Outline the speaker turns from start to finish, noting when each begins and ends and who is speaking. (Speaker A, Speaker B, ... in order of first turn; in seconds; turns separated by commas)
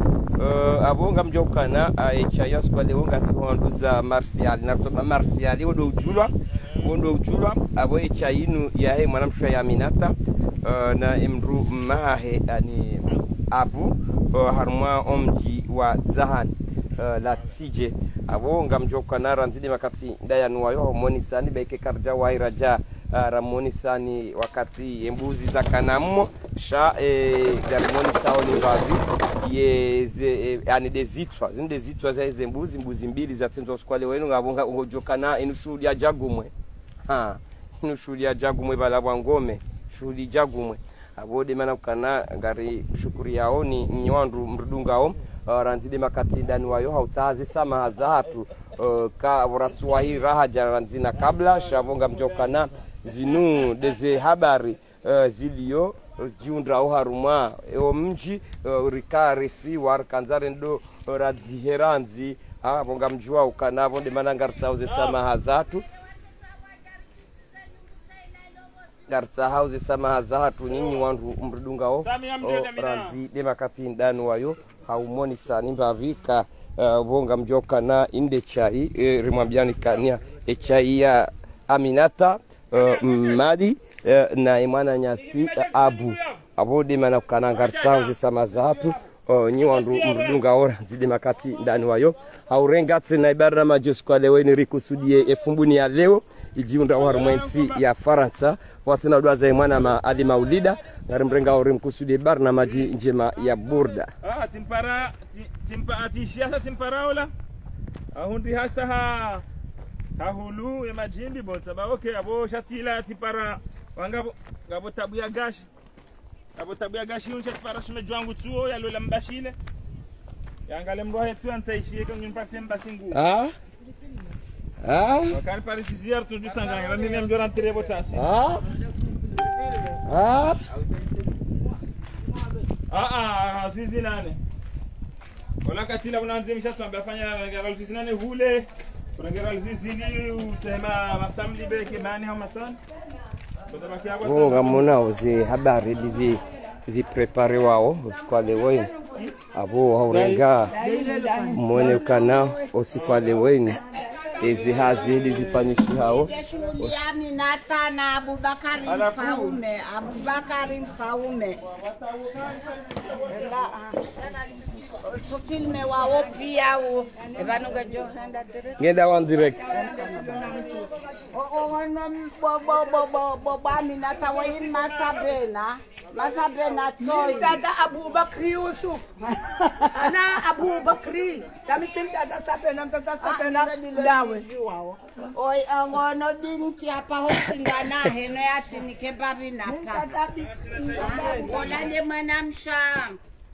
Speaker A: 0.3-36.5, Speaker A: 37.1-65.8, Speaker B: 64.9-65.2, Speaker A: 69.1-104.1, Speaker B: 72.0-73.2, Speaker B: 82.8-83.2, Speaker B: 85.3-86.3, Speaker B: 87.6-88.2, Speaker B: 89.6-90.4, Speaker B: 96.9-97.8, Speaker B: 104.2-107.3, Speaker B: 108.1-109.5, Speaker B: 110.2-115.7, Speaker B: 116.5-119.6, Speaker B: 120.7-123.2, Speaker A: 123.1-123.5, Speaker A: 124.8-125.4, Speaker B: 125.3-128.3, Speaker A: 128.1-128.7, Speaker A: 130.0-130.6, Speaker B: 132.9-134.4, Speaker B: 135.6-142.8, Speaker B: 143.7-144.8, Speaker A: 144.2-148.9, Speaker C: 148.7-149.3, Speaker A: 149.5-150.7, Speaker B: 150.1-150.4, Speaker D: 150.7-152.0, Speaker C: 150.8-152.7, Speaker A: 151.5-153.8, Speaker A: 154.4-156.3, Speaker B: 154.7-155.6, Speaker C: 155.8-161.6, Speaker B: 158.9-159.6, Speaker B: 162.2-163.1, Speaker C: 163.2-164.2, Speaker D: 164.2-164.8, Speaker C: 165.0-169.0, Speaker D: 167.2-167.8, Speaker A: 168.8-169.8, Speaker D: 169.4-171.2, Speaker C: 169.7-170.4, Speaker C: 171.3-177.6, Speaker D: 177.0-179.1, Speaker C: 179.3-179.9, Speaker D: 179.9-184.5, Speaker C: 183.2-190.2, Speaker D: 189.7-191.8, Speaker B: 190.7-191.8, Speaker C: 191.0-193.2